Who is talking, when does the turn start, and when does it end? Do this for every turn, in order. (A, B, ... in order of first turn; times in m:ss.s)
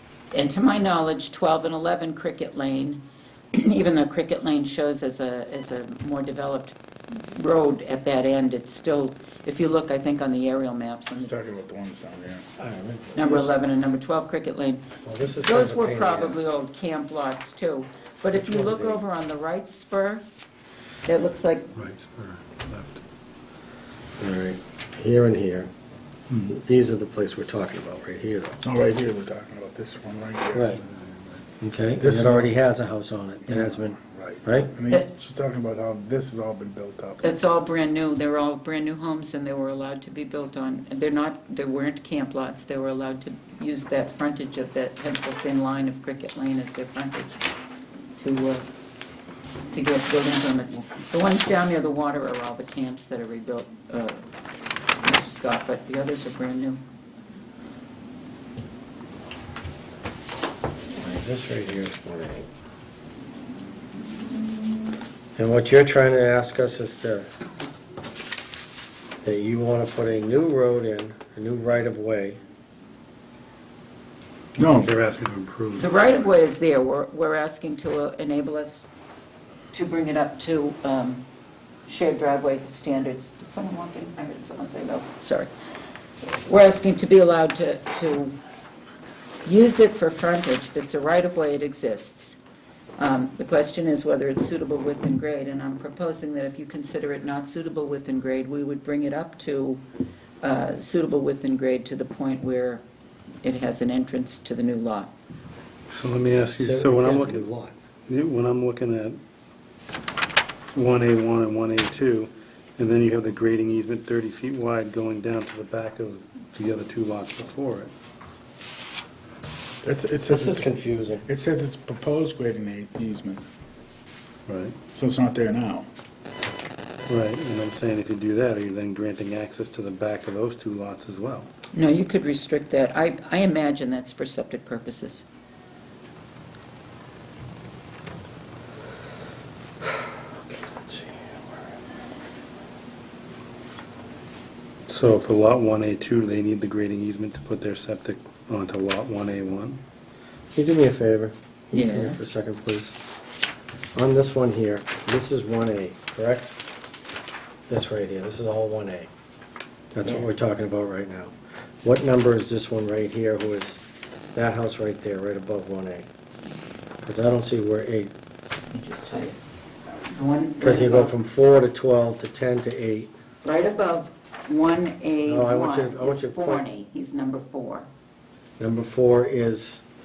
0:00.3-0:03.0 A
0:03.5-0:11.3 A
0:11.1-0:12.4 B
0:12.6-0:13.5 C
0:13.2-0:14.8 A
0:15.0-0:16.5 C
0:15.4-0:20.2 A
0:18.3-0:19.0 C
0:21.0-0:21.7 A
0:21.8-0:23.0 D
0:24.2-0:25.7 C
0:26.5-0:28.6 C
0:28.6-0:30.7 B
0:30.5-0:30.8 C
0:30.8-0:31.4 D
0:31.6-0:34.7 C
0:32.0-0:32.5 B
0:33.4-0:37.4 B
0:37.2-0:47.3 A
0:48.2-0:48.7 A
0:49.7-0:54.2 A
0:55.0-0:56.8 A
1:01.0-1:02.5 C
1:05.4-1:07.3 C
1:09.2-1:12.4 C
1:14.6-1:14.9 B
1:14.6-1:15.9 D
1:15.8-1:18.8 A
1:19.7-1:21.2 A
1:21.9-1:25.5 A
1:26.2-1:28.4 A
1:29.4-1:32.4 A
1:33.0-1:39.8 A
1:40.4-1:42.8 A
1:43.4-1:45.1 A
1:45.9-1:47.5 D
1:46.4-1:47.7 C
1:48.1-1:49.2 D
1:50.7-1:57.9 D
1:59.8-2:00.7 B
2:00.3-2:01.3 C
2:01.3-2:03.4 B
2:04.5-2:04.8 D
2:04.9-2:05.9 B
2:07.1-2:11.5 D
2:11.7-2:15.2 A
2:20.5-2:21.4 C
2:24.9-2:29.8 D
2:30.6-2:33.0 C
2:31.7-2:32.2 A
2:34.0-2:36.6 C
2:37.7-2:39.1 C
2:39.9-2:43.8 C
2:40.0-2:40.4 A
2:44.3-2:46.1 C
2:47.0-2:48.1 C
2:48.6-2:49.4 A
2:50.0-2:51.2 A
2:50.6-2:53.1 C
2:53.4-2:57.9 A
2:55.2-2:56.6 C
2:58.6-2:59.8 C